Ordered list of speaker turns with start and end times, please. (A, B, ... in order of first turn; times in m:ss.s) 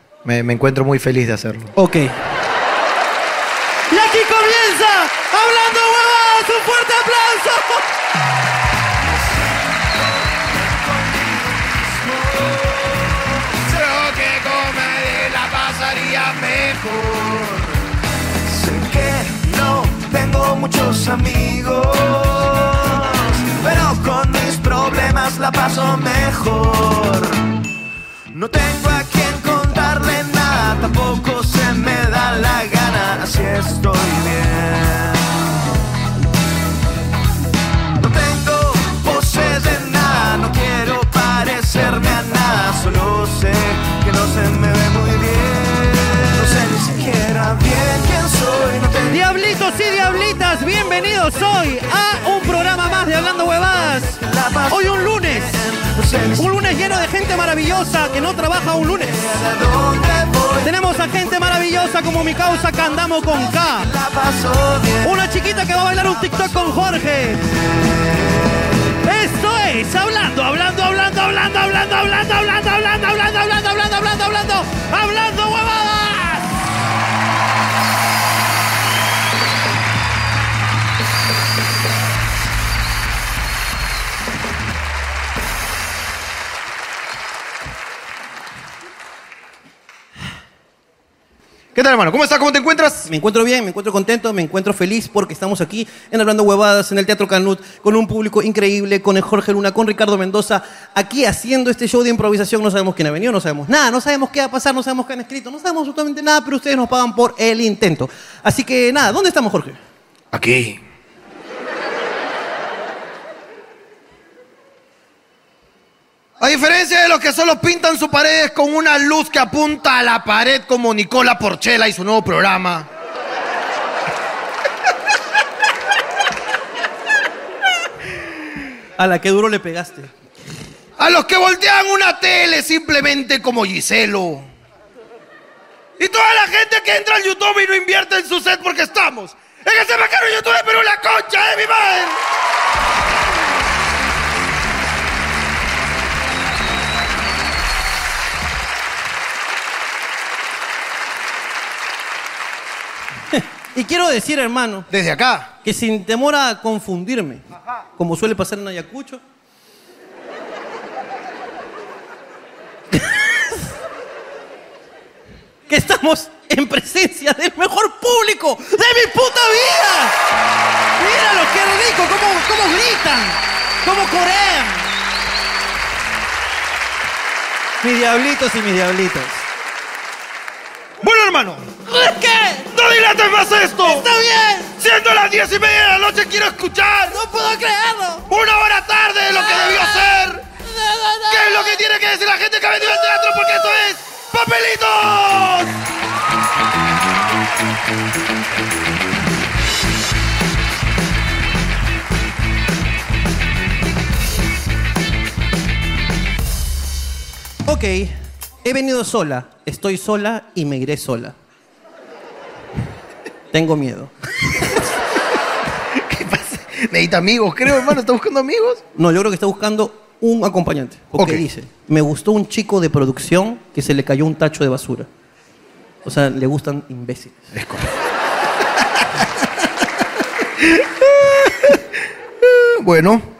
0:00.2-0:01.7 A
0:01.8-0:02.1 B
0:03.9-0:07.9 B
0:09.0-0:13.6 C
0:13.7-0:16.7 A
0:16.2-0:17.8 C
0:18.4-0:27.5 C
0:28.3-0:35.3 C
0:38.0-0:49.2 C
0:49.1-0:55.6 B
0:54.0-0:56.5 C
0:56.4-0:59.2 B
0:59.0-1:01.8 C
1:00.6-1:03.9 B
1:03.0-1:07.0 C
1:05.0-1:07.4 B
1:07.6-1:08.0 C
1:09.0-1:16.5 B
1:31.8-1:33.1 A
1:33.1-1:49.8 B
1:50.3-1:50.8 A
1:56.4-2:02.9 A
2:09.0-2:10.1 B
2:11.0-2:14.5 A
2:16.0-2:22.2 A
2:33.3-2:34.9 B
2:34.9-2:35.5 A
2:35.6-2:37.4 B
2:38.0-2:39.2 B
2:42.9-2:43.6 B
2:45.7-2:50.2 B
2:51.0-2:54.9 B
2:57.8-2:59.5 B
3:01.0-3:01.7 A
3:01.9-3:02.7 B
3:02.7-3:04.1 A
3:03.8-3:04.7 B
3:04.8-3:07.2 A
3:07.1-3:08.2 B
3:08.3-3:10.4 A
3:10.8-3:11.7 B
3:11.3-3:15.8 A
3:27.7-3:28.1 B
3:28.6-3:31.4 B
3:33.5-3:34.1 B
3:36.0-3:38.8 A
3:39.0-3:45.1 B
3:41.2-3:41.4 A
3:46.0-3:47.4 B
3:47.5-3:47.9 A
3:50.6-3:51.8 A
3:52.4-3:53.3 A